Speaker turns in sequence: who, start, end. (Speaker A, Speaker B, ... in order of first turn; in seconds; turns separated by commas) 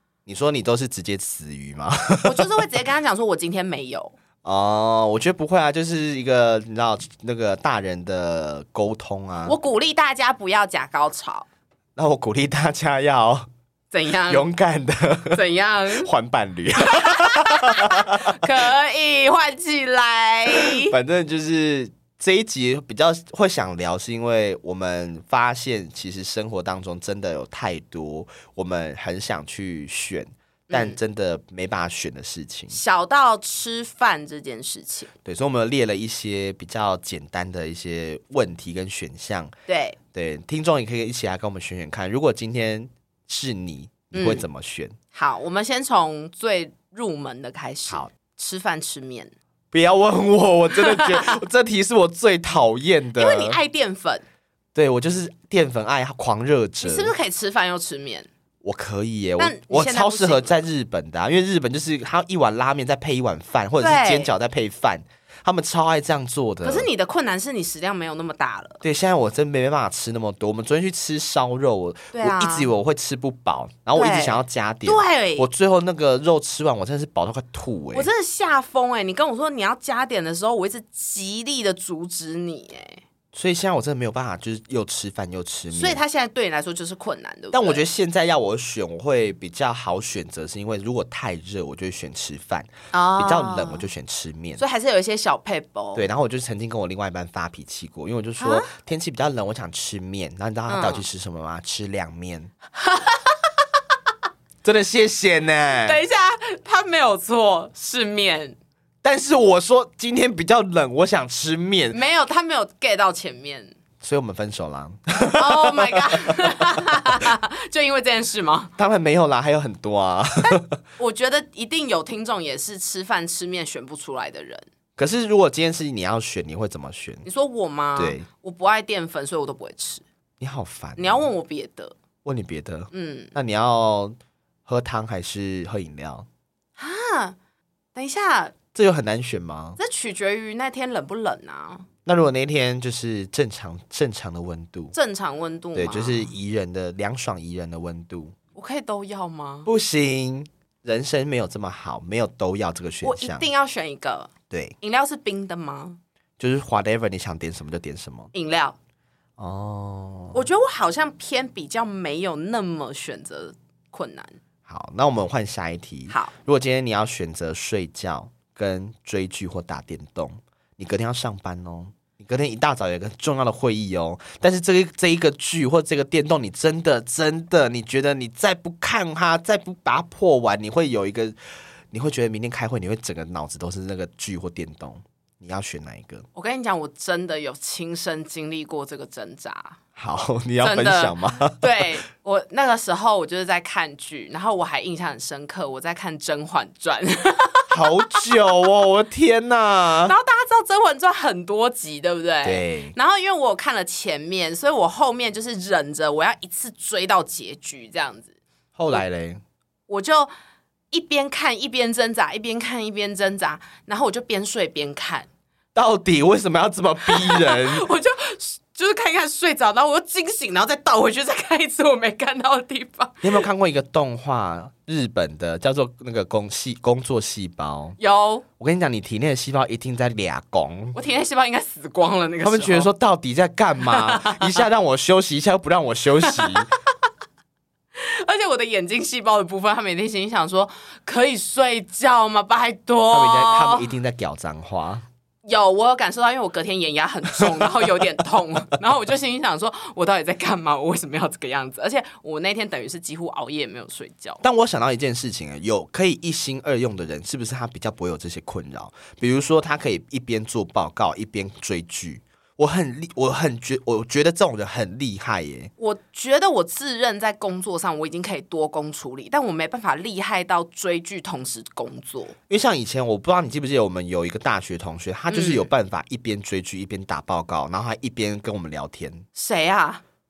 Speaker A: 0.2-2.6, Speaker B: 2.2-4.1, Speaker A: 4.4-9.6, Speaker B: 9.4-11.5, Speaker A: 11.9-13.5, Speaker B: 13.9-14.4, Speaker A: 14.3-18.4, Speaker B: 15.3-16.1, Speaker B: 16.8-20.9, Speaker A: 20.5-32.8, Speaker B: 30.7-31.0, Speaker B: 32.7-35.1, Speaker A: 35.2-39.5, Speaker B: 39.7-40.0, Speaker A: 40.1-45.0, Speaker B: 44.1-44.5, Speaker B: 45.1-49.3, Speaker A: 49.7-53.6, Speaker B: 50.8-51.3, Speaker B: 53.2-54.2, Speaker A: 54.7-57.1, Speaker B: 56.8-58.3, Speaker A: 58.6-66.9, Speaker B: 59.4-60.6, Speaker B: 63.8-64.3, Speaker B: 66.6-68.8, Speaker A: 68.8-78.1, Speaker B: 72.1-72.7, Speaker B: 74.0-75.5, Speaker B: 77.9-83.0, Speaker A: 83.3-86.0, Speaker B: 85.7-87.8, Speaker A: 87.5-94.6, Speaker B: 92.9-93.8, Speaker B: 94.6-96.0, Speaker A: 95.9-102.5, Speaker B: 98.4-98.7, Speaker B: 100.7-101.0, Speaker B: 102.7-103.5, Speaker A: 104.6-106.0, Speaker B: 105.8-108.6, Speaker A: 109.0-112.0, Speaker B: 111.9-113.7, Speaker A: 114.0-116.8, Speaker B: 115.3-118.7, Speaker A: 118.8-120.7, Speaker B: 120.4-124.6, Speaker A: 125.0-127.2, Speaker B: 127.2-130.0, Speaker A: 128.0-128.3, Speaker A: 130.4-131.2, Speaker B: 131.0-131.9, Speaker A: 132.2-136.3, Speaker B: 132.9-133.3, Speaker B: 136.8-137.3, Speaker B: 137.9-138.5, Speaker A: 138.7-139.8, Speaker B: 139.8-141.9, Speaker A: 142.0-144.9, Speaker B: 144.9-146.3, Speaker A: 145.7-148.3, Speaker B: 148.5-149.7, Speaker A: 149.6-153.5, Speaker B: 153.0-156.0, Speaker A: 154.5-154.7, Speaker A: 156.4-158.3, Speaker B: 158.3-158.8, Speaker A: 159.4-160.4, Speaker B: 160.3-164.4, Speaker A: 164.7-181.4, Speaker A: 181.9-186.2, Speaker B: 186.3-189.8, Speaker A: 189.9-191.9, Speaker B: 190.6-198.2, Speaker A: 197.7-200.1, Speaker B: 200.0-208.3, Speaker A: 202.4-202.9, Speaker A: 208.7-209.4, Speaker B: 209.9-210.3, Speaker B: 210.9-215.3, Speaker A: 215.7-217.8, Speaker B: 217.1-223.4, Speaker A: 223.2-228.0, Speaker B: 228.0-228.4, Speaker A: 228.6-231.0, Speaker B: 230.9-232.9, Speaker A: 232.4-236.7, Speaker B: 233.8-234.6, Speaker B: 236.2-236.6, Speaker B: 237.9-243.9, Speaker A: 243.1-245.0, Speaker B: 245.4-254.4, Speaker A: 247.4-247.7, Speaker A: 254.4-265.7, Speaker B: 265.8-272.3, Speaker A: 272.5-279.2, Speaker B: 275.3-275.7, Speaker B: 279.3-280.0